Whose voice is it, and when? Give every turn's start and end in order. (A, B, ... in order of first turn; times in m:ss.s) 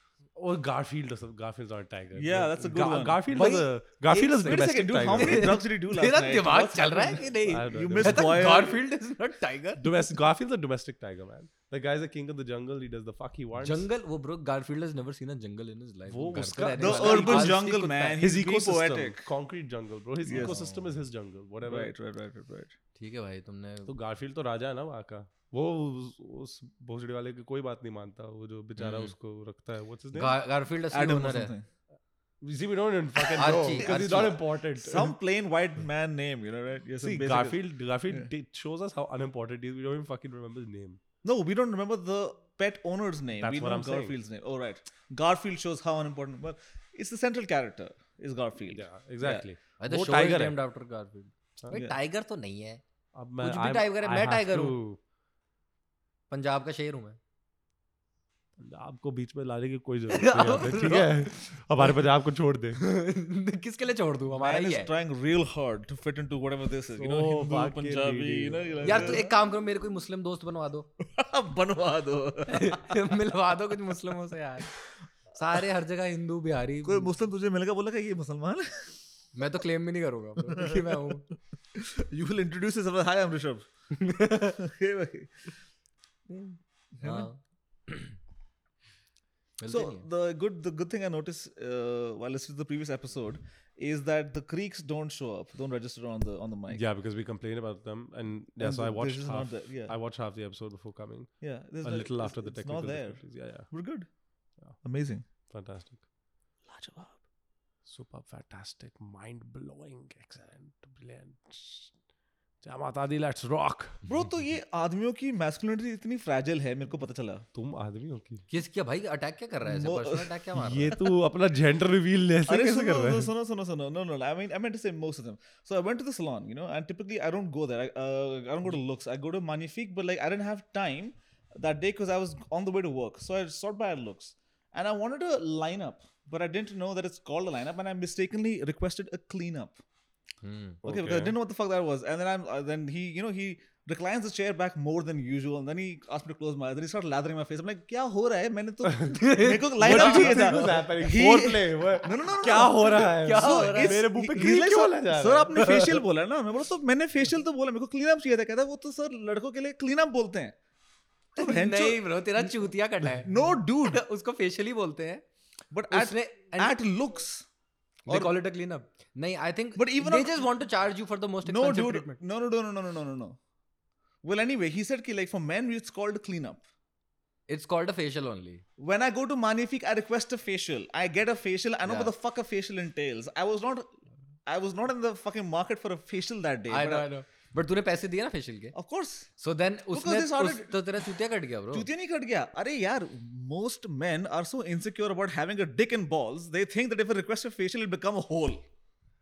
0:00.4-0:05.5 A
0:02.2-0:08.8 B
0:03.4-0:03.6 C
0:05.1-0:09.9 C
0:07.5-0:08.5 A
0:09.8-0:13.8 A
0:13.6-0:18.2 C
0:16.1-0:17.6 A
0:16.4-0:19.3 B
0:18.2-0:21.9 A
0:20.3-0:20.6 B
0:20.3-0:20.9 C
0:21.7-0:22.8 B
0:23.0-0:23.9 C
0:23.9-0:30.4 A
0:28.8-0:29.1 C
0:30.1-0:31.5 C
0:30.9-0:31.6 B
0:32.4-0:35.1 A
0:33.4-0:34.2 C
0:33.8-0:37.6 B
0:37.0-0:41.0 A
0:41.2-0:49.5 B
0:43.4-0:44.2 A
0:48.7-0:50.6 A
0:49.8-0:52.8 C
0:51.7-0:52.0 B
0:53.2-0:55.0 A
0:53.4-0:54.8 C
0:56.3-0:57.2 C
0:58.6-1:02.8 A
1:00.1-1:01.3 C
1:02.8-1:04.9 C
1:04.3-1:09.3 B
1:07.0-1:09.3 A
1:08.8-1:10.9 C
1:11.0-1:13.0 B
1:12.5-1:14.7 C
1:15.3-1:17.1 C
1:16.8-1:19.0 B
1:19.4-1:21.3 C
1:20.5-1:21.2 B
1:21.7-1:23.7 B
1:23.9-1:24.6 C
1:24.6-1:25.5 B
1:26.3-1:28.2 C
1:27.0-1:27.3 B
1:29.6-1:30.1 C
1:29.7-1:36.8 B
1:36.7-1:43.7 A
1:38.6-1:39.9 B
1:41.4-1:44.1 B
1:44.8-1:45.2 B
1:45.5-1:46.0 A
1:46.6-1:47.2 B
1:47.9-1:51.9 A
1:52.6-1:54.0 A
1:54.1-1:57.4 B
1:57.5-1:58.4 A
1:58.5-2:01.0 C
1:59.6-2:00.4 B
2:00.6-2:03.3 A
2:02.5-2:19.8 B
2:20.4-2:20.8 C
2:20.8-2:21.4 A
2:20.8-2:40.6 B
2:28.8-2:29.2 A
2:29.1-2:30.9 C
2:29.8-2:35.7 A
2:33.2-2:34.0 C
2:41.4-2:45.2 C
2:41.4-2:42.0 B
2:43.2-2:44.0 B
2:45.7-2:47.5 B
2:45.9-2:46.8 C
2:48.1-2:52.2 C
2:48.1-2:48.3 B
2:49.8-2:50.5 B
2:51.4-2:53.4 B
2:54.2-2:56.6 B
2:57.5-2:58.6 C
2:58.8-3:03.9 B
3:01.9-3:02.1 C
3:04.5-3:07.1 B
3:06.7-3:08.8 C
3:08.8-3:09.3 B
3:09.4-3:11.9 C
3:09.9-3:10.8 B
3:11.7-3:18.6 B